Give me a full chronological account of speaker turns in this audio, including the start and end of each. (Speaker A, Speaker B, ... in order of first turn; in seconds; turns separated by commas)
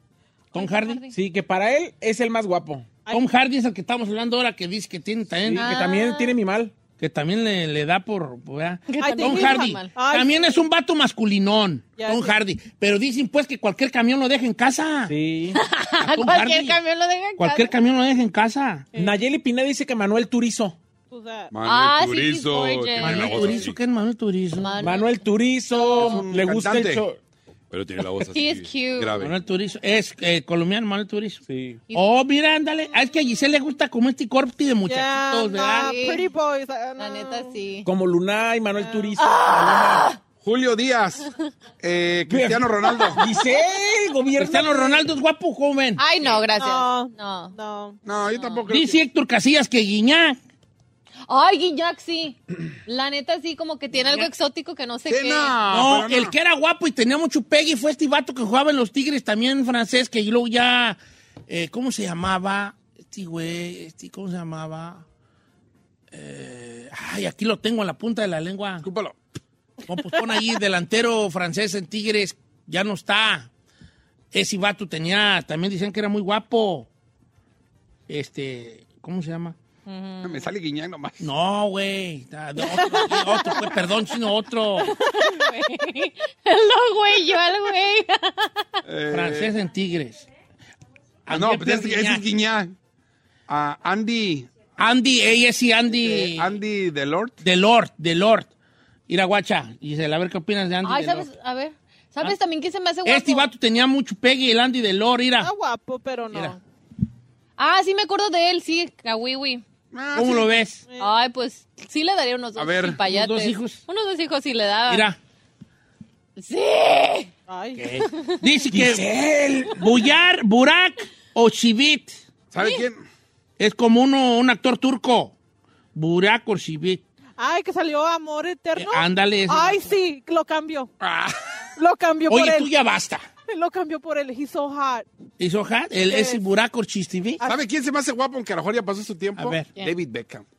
Speaker A: 0.5-1.0, Speaker B: 0.5-1.1, Speaker C: 1.1-3.0, Speaker A: 3.1-5.7, Speaker C: 5.4-6.7, Speaker B: 5.6-6.4, Speaker A: 7.0-15.1, Speaker B: 8.9-9.9, Speaker D: 9.0-10.5, Speaker D: 12.0-12.3, Speaker C: 15.1-15.6, Speaker B: 15.6-17.7, Speaker A: 16.0-16.8, Speaker A: 17.4-18.9, Speaker C: 18.9-20.8, Speaker D: 21.1-21.5, Speaker E: 21.5-23.8, Speaker B: 21.6-23.7, Speaker A: 23.0-24.7, Speaker B: 24.6-25.2, Speaker C: 24.8-27.2, Speaker B: 25.8-26.2, Speaker E: 26.0-27.0, Speaker E: 27.7-29.3, Speaker B: 28.3-29.3, Speaker A: 29.2-35.9, Speaker C: 31.4-31.8, Speaker D: 34.9-37.6, Speaker B: 35.8-36.3, Speaker B: 37.0-37.9, Speaker C: 37.8-40.1, Speaker D: 38.8-39.1, Speaker B: 39.3-40.2, Speaker E: 40.4-41.2, Speaker E: 41.8-43.2, Speaker C: 42.3-45.0, Speaker A: 44.4-46.4, Speaker B: 46.0-47.5, Speaker D: 46.6-48.0, Speaker E: 48.0-49.0, Speaker B: 48.3-48.6, Speaker A: 48.7-50.4, Speaker B: 51.3-55.6, Speaker A: 53.9-54.3, Speaker E: 55.1-56.3, Speaker A: 55.7-65.0, Speaker A: 66.1-68.9, Speaker E: 68.8-69.2, Speaker A: 69.9-73.5, Speaker A: 74.3-76.9, Speaker A: 78.1-79.5, Speaker B: 79.8-80.5, Speaker E: 80.2-81.2, Speaker A: 81.2-85.0, Speaker D: 82.6-83.3, Speaker B: 85.0-88.7, Speaker E: 88.8-89.5, Speaker A: 89.1-90.2, Speaker A: 91.2-92.2, Speaker E: 91.3-92.7, Speaker E: 93.5-94.5, Speaker A: 94.8-96.6, Speaker E: 95.9-97.4, Speaker A: 97.4-98.5, Speaker A: 99.1-101.3, Speaker B: 100.8-103.5, Speaker A: 103.0-105.5, Speaker D: 105.4-106.6, Speaker A: 106.3-106.6, Speaker B: 107.6-109.6, Speaker E: 109.9-110.5, Speaker A: 110.1-110.8, Speaker D: 110.9-111.1, Speaker B: 111.0-115.1, Speaker E: 112.5-113.0, Speaker A: 113.0-113.8, Speaker A: 114.9-115.2, Speaker B: 116.4-117.3, Speaker D: 117.5-117.9, Speaker A: 117.7-119.0, Speaker C: 118.7-119.8, Speaker A: 119.7-122.2, Speaker E: 122.5-123.0, Speaker B: 122.6-122.8, Speaker A: 123.6-125.3, Speaker A: 125.9-127.0, Speaker D: 127.4-130.9, Speaker A: 128.8-129.9, Speaker E: 131.0-131.4, Speaker D: 131.8-132.7, Speaker A: 132.3-133.2, Speaker D: 133.5-135.1, Speaker A: 135.4-137.4, Speaker D: 136.1-136.4, Speaker E: 137.4-140.4, Speaker A: 139.3-139.7